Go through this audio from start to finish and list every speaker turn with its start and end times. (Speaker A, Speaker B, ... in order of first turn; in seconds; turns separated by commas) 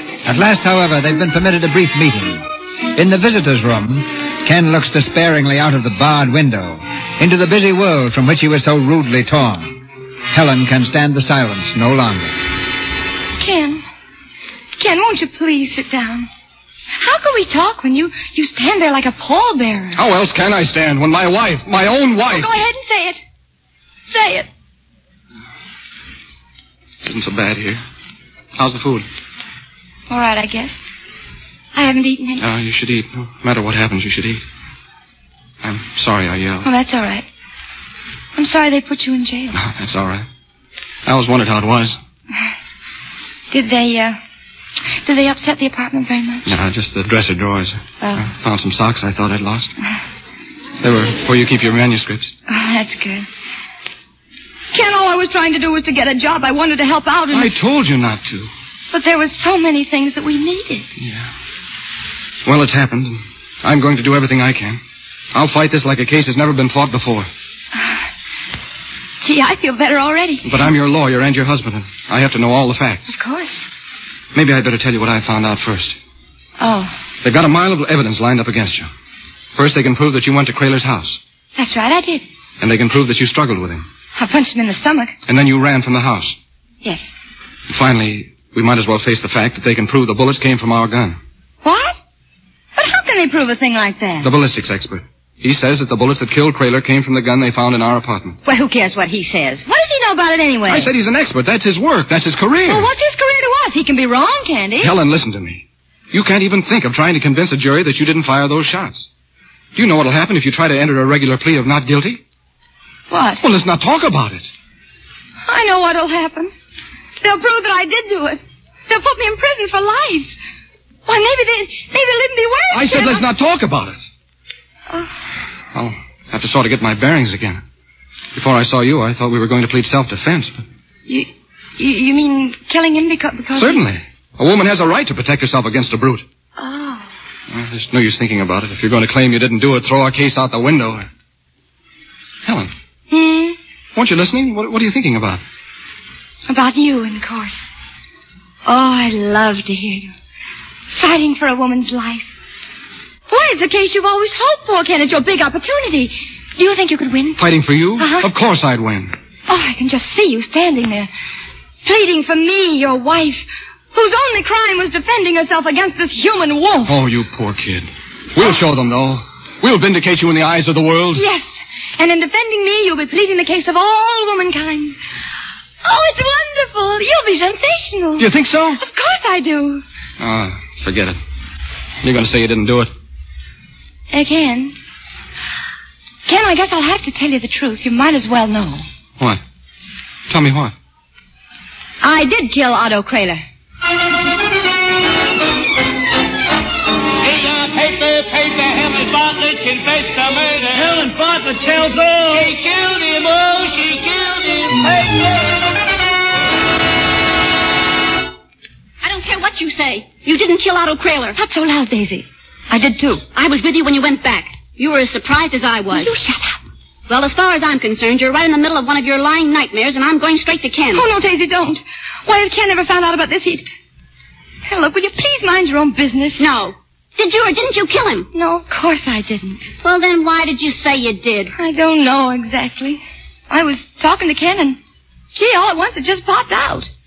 Speaker A: 0.2-12.3, Speaker B: 13.4-13.8, Speaker B: 14.8-16.3, Speaker B: 17.0-20.0, Speaker C: 19.9-22.5, Speaker B: 22.3-23.2, Speaker B: 24.1-24.5, Speaker C: 27.0-27.8, Speaker C: 28.6-29.1, Speaker B: 30.1-30.8, Speaker B: 31.7-32.4, Speaker C: 32.4-34.4, Speaker C: 35.6-36.7, Speaker B: 36.6-37.2, Speaker B: 38.3-39.6, Speaker C: 39.5-40.2, Speaker C: 41.0-42.0, Speaker B: 43.5-44.2, Speaker B: 45.0-46.5, Speaker C: 46.5-49.7, Speaker B: 48.0-48.3, Speaker C: 50.8-52.3, Speaker B: 52.5-53.2, Speaker B: 54.7-57.5, Speaker C: 57.3-58.5, Speaker B: 58.9-60.9, Speaker C: 61.0-61.3, Speaker C: 62.4-64.8, Speaker C: 65.3-67.3, Speaker B: 69.2-70.7, Speaker C: 70.4-73.1, Speaker B: 73.0-73.6, Speaker C: 74.3-76.0, Speaker B: 76.6-77.0, Speaker C: 77.2-78.9, Speaker C: 79.5-81.2, Speaker B: 81.5-82.2, Speaker C: 82.6-83.8, Speaker B: 84.1-85.1, Speaker C: 85.3-86.3, Speaker B: 86.8-87.1, Speaker C: 87.7-91.2, Speaker B: 91.6-92.0, Speaker B: 92.8-94.3, Speaker C: 94.2-98.4, Speaker B: 98.4-100.9, Speaker C: 100.7-102.9, Speaker B: 102.7-104.9, Speaker C: 104.8-109.1, Speaker C: 109.7-112.2, Speaker B: 113.1-113.4, Speaker C: 113.4-114.5, Speaker B: 115.5-116.5, Speaker B: 117.2-120.3, Speaker B: 121.0-123.3, Speaker C: 122.7-124.0, Speaker C: 125.7-127.6, Speaker C: 128.3-130.6, Speaker B: 131.1-133.8, Speaker C: 133.5-136.2, Speaker B: 136.6-137.0, Speaker C: 137.5-141.0, Speaker C: 142.4-142.7, Speaker B: 143.1-143.6, Speaker C: 143.9-145.4, Speaker B: 146.5-147.5, Speaker B: 148.7-150.1, Speaker B: 150.9-152.3, Speaker B: 153.3-157.4, Speaker C: 157.4-159.1, Speaker B: 158.0-158.3, Speaker B: 159.5-161.1, Speaker B: 161.8-166.9, Speaker C: 166.8-171.2, Speaker B: 171.1-175.0, Speaker B: 175.8-179.8, Speaker C: 178.2-178.8, Speaker C: 180.2-181.2, Speaker C: 182.0-182.9, Speaker B: 184.1-184.7, Speaker B: 186.3-188.8, Speaker C: 190.3-190.7, Speaker B: 192.0-193.4, Speaker D: 197.2-201.1, Speaker D: 202.3-205.2, Speaker E: 209.0-211.4, Speaker B: 211.3-213.2, Speaker E: 213.3-216.1, Speaker B: 215.9-216.6, Speaker E: 217.1-221.0, Speaker B: 220.9-223.7, Speaker B: 224.6-226.4, Speaker E: 226.4-228.3, Speaker B: 228.3-229.6, Speaker E: 229.8-231.5, Speaker B: 231.5-234.8, Speaker B: 235.3-236.9